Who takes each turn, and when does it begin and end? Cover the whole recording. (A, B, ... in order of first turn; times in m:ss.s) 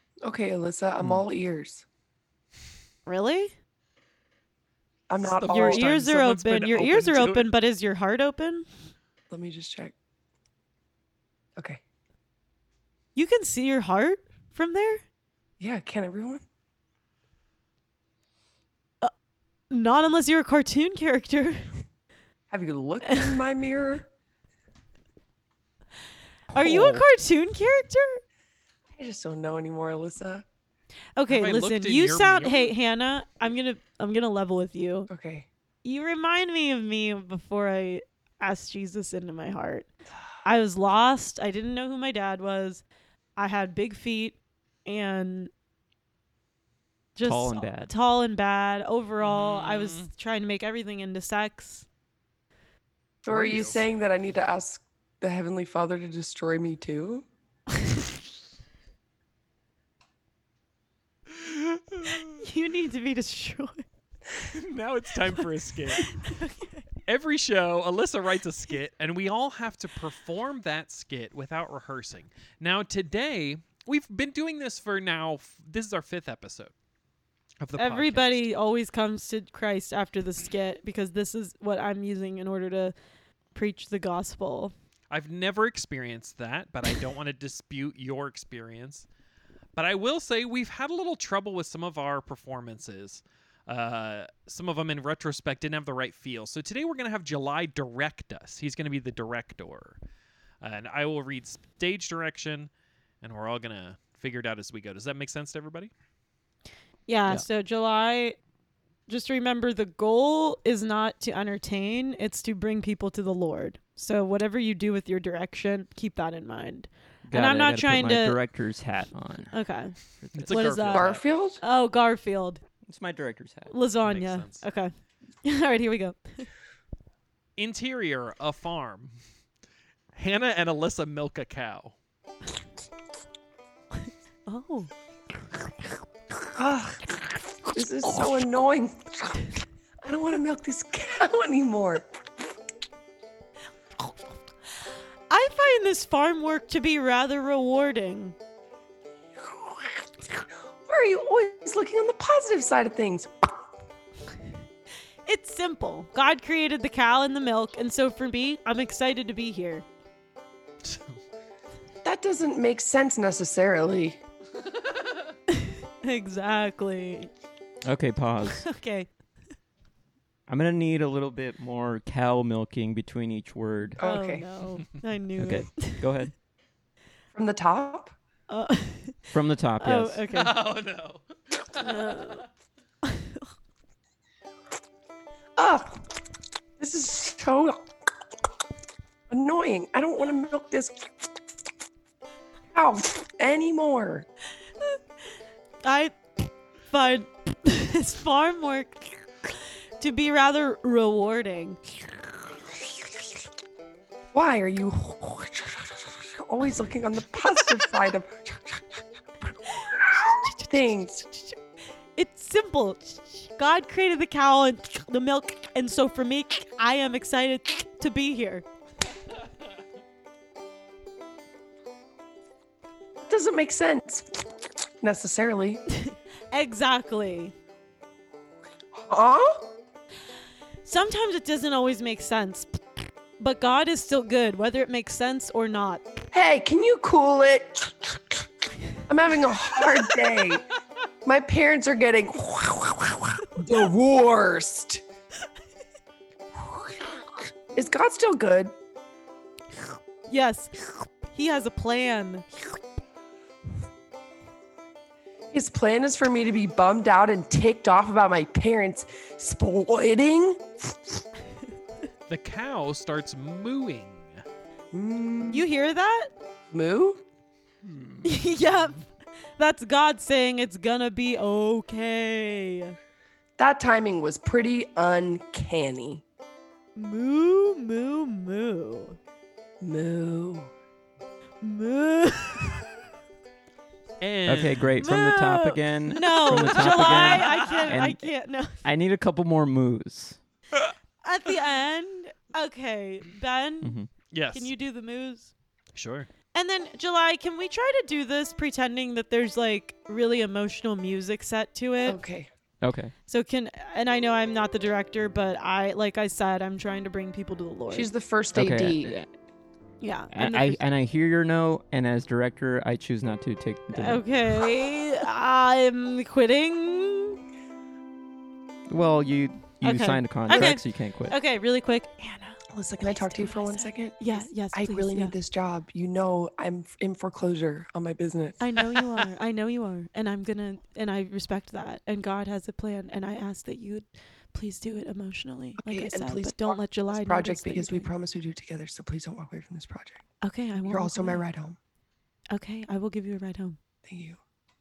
0:00.2-0:01.8 A
0:03.1-0:03.5 B
0:05.1-0:05.8 A
0:05.2-0:07.5 C
0:05.5-0:08.7 B
0:09.3-0:10.0 A
0:13.2-0:15.0 B
0:15.6-0:16.4 A
0:19.7-0:21.6 B
0:22.5-0:24.1 A
0:23.1-0:23.4 B
0:26.5-0:28.2 B
0:29.0-0:30.4 A
0:31.2-0:35.1 B
0:31.3-0:32.7 C
0:35.1-0:35.5 A
0:35.8-0:39.9 B
0:40.4-0:42.8 B
0:43.4-0:45.5 B
0:47.2-0:51.9 B
0:47.2-0:47.9 D
0:49.2-0:50.1 C
0:53.2-0:57.3 A
0:53.3-0:53.8 C
1:01.3-1:02.4 C
1:02.2-1:03.8 B
1:04.5-1:06.2 C
1:05.9-1:06.9 B
1:07.1-1:16.7 C
1:17.6-1:18.4 C
1:17.8-1:22.9 B
1:23.5-1:24.7 B
1:25.1-1:29.1 C
1:29.8-1:40.0 C
1:40.6-1:42.7 C
1:43.2-1:45.9 C
1:47.1-1:48.4 B
1:49.1-1:58.4 B
1:57.3-1:59.5 D
1:59.5-2:00.0 B
2:00.2-2:00.6 D
2:00.4-2:01.2 C
2:00.5-2:02.6 B
2:00.9-2:01.6 A
2:02.9-2:03.7 D
2:03.7-2:04.9 B
2:04.0-2:04.6 C
2:05.4-2:06.5 B
2:07.6-2:09.1 C
2:10.2-2:12.0 C
2:14.0-2:14.9 B
2:16.6-2:17.1 A
2:17.7-2:19.5 A
2:20.0-2:22.2 A
2:25.3-2:28.4 B
2:29.5-2:30.0 A
2:30.9-2:33.6 A
2:35.3-2:39.8 B
2:40.8-2:41.2 C
2:42.0-2:44.2 A
2:45.5-2:47.3 B
2:47.8-2:48.6 D
2:48.5-2:49.1 B
2:50.5-2:54.0 D
2:54.0-2:54.5 A
2:54.0-2:56.2 B
2:55.4-2:56.3 D
2:57.3-2:58.1 A
2:58.5-3:00.5 B
2:59.3-3:00.2 D
3:00.3-3:02.5 C
3:01.8-3:02.4 B
3:03.0-3:03.4 B
3:05.6-3:06.1 A
3:06.8-3:07.9 A
3:09.3-3:11.3 A
3:12.7-3:14.3 A
3:15.8-3:16.2 B
3:16.9-3:21.8 B
3:24.3-3:28.8 A
3:29.7-3:31.3 A
3:30.4-3:30.8 B
3:32.2-3:38.6 B
3:43.3-3:44.5 A
3:45.0-3:45.8 A
3:46.0-3:47.5 B
3:49.0-3:49.7 A
3:50.8-3:52.8 B
3:53.4-3:56.0 B
3:56.3-3:58.4 A
3:59.1-4:00.7 A
4:01.2-4:05.0 A
4:06.6-4:07.0 A
4:07.7-4:08.7 A
4:10.3-4:12.5 B
4:15.5-4:21.2 A
4:22.3-4:24.4 C
4:24.9-4:25.7 A
4:25.5-4:26.3 B
4:26.7-4:27.2 A
4:27.9-4:28.4 C
4:28.2-4:29.1 B
4:29.6-4:33.0 B
4:33.6-4:36.2 A
4:37.0-4:39.2 B
4:39.8-4:40.7 A
4:41.6-4:42.8 B
4:44.2-4:45.0 C
4:44.5-4:48.3 D
4:45.0-4:48.8 B
4:46.6-4:47.8 C
4:48.8-4:50.4 D
4:51.2-4:54.0 B
4:53.8-4:54.1 D
4:54.3-4:54.7 C
4:54.5-4:55.5 B
4:56.0-4:56.3 C
4:56.5-5:02.2 B
5:02.0-5:02.5 A
5:02.8-5:03.1 D
5:03.3-5:08.1 B
5:07.9-5:09.2 A
5:08.5-5:09.3 D
5:10.0-5:10.8 B
5:10.3-5:14.2 D
5:13.9-5:17.4 B
5:18.9-5:21.4 D
5:19.8-5:25.3 B
5:22.7-5:29.2 A
5:28.6-5:38.1 B
5:35.8-5:40.2 A
5:40.4-5:41.4 B
5:40.9-5:41.8 A
5:42.5-5:43.8 B
5:44.0-5:44.4 A